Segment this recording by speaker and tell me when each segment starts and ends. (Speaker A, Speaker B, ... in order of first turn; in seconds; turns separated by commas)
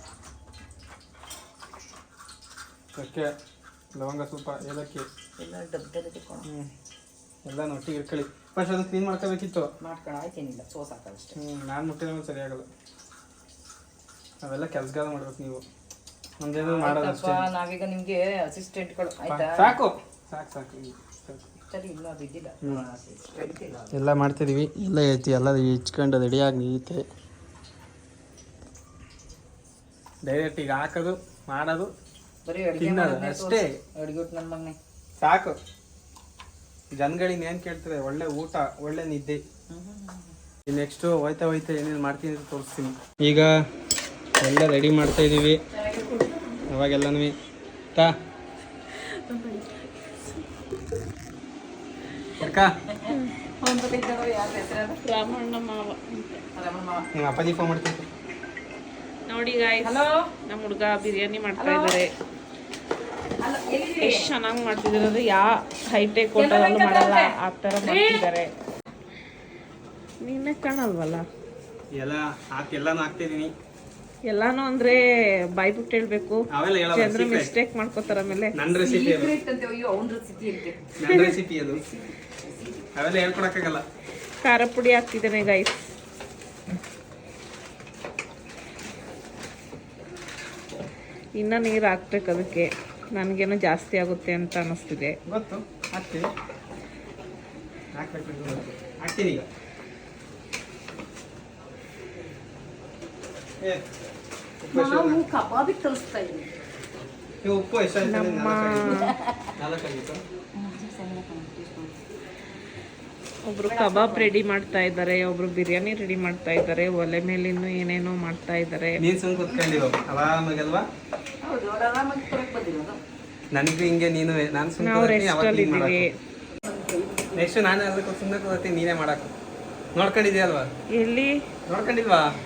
Speaker A: 3.0-3.3, Speaker A: 4.0-5.1, Speaker B: 5.4-6.5, Speaker A: 7.5-9.7, Speaker B: 9.8-11.4, Speaker A: 11.4-12.7, Speaker A: 14.4-15.6, Speaker A: 16.4-17.5, Speaker B: 16.6-19.7, Speaker A: 19.3-21.5, Speaker B: 21.7-23.9, Speaker A: 23.9-27.1, Speaker A: 30.2-31.9, Speaker B: 32.5-34.8, Speaker A: 32.8-33.7, Speaker A: 35.2-35.6, Speaker A: 36.9-39.4, Speaker B: 39.7-40.3, Speaker A: 40.7-43.5, Speaker A: 44.4-45.6, Speaker B: 45.9-46.2, Speaker C: 46.1-46.4, Speaker A: 46.7-47.4, Speaker C: 48.9-50.4, Speaker A: 52.4-52.7, Speaker B: 53.0-55.0, Speaker C: 53.1-53.4, Speaker C: 55.0-56.4, Speaker B: 56.5-57.1, Speaker A: 57.1-58.1, Speaker C: 59.3-62.1, Speaker B: 59.8-60.3, Speaker B: 61.6-62.0, Speaker B: 63.4-64.3, Speaker C: 64.0-68.5, Speaker B: 66.4-68.3, Speaker C: 70.2-71.3, Speaker A: 72.0-73.5, Speaker C: 74.3-75.0, Speaker C: 75.5-78.5, Speaker A: 76.5-77.5, Speaker A: 78.5-79.3, Speaker B: 78.7-82.9, Speaker A: 81.0-81.8, Speaker A: 83.0-83.8, Speaker C: 84.4-85.9, Speaker C: 91.4-95.2, Speaker A: 95.3-96.2, Speaker B: 96.0-96.2, Speaker A: 98.0-99.5, Speaker B: 104.6-106.5, Speaker A: 104.7-105.2, Speaker A: 107.4-110.2, Speaker C: 108.0-109.1, Speaker B: 108.9-109.5, Speaker B: 110.6-112.0, Speaker C: 113.5-119.0, Speaker B: 113.7-114.3, Speaker A: 119.0-120.9, Speaker B: 121.4-123.0, Speaker A: 123.5-126.1, Speaker C: 124.8-126.2, Speaker B: 126.7-127.3, Speaker A: 127.3-129.3, Speaker A: 129.9-130.7, Speaker C: 130.9-131.3, Speaker A: 131.7-132.3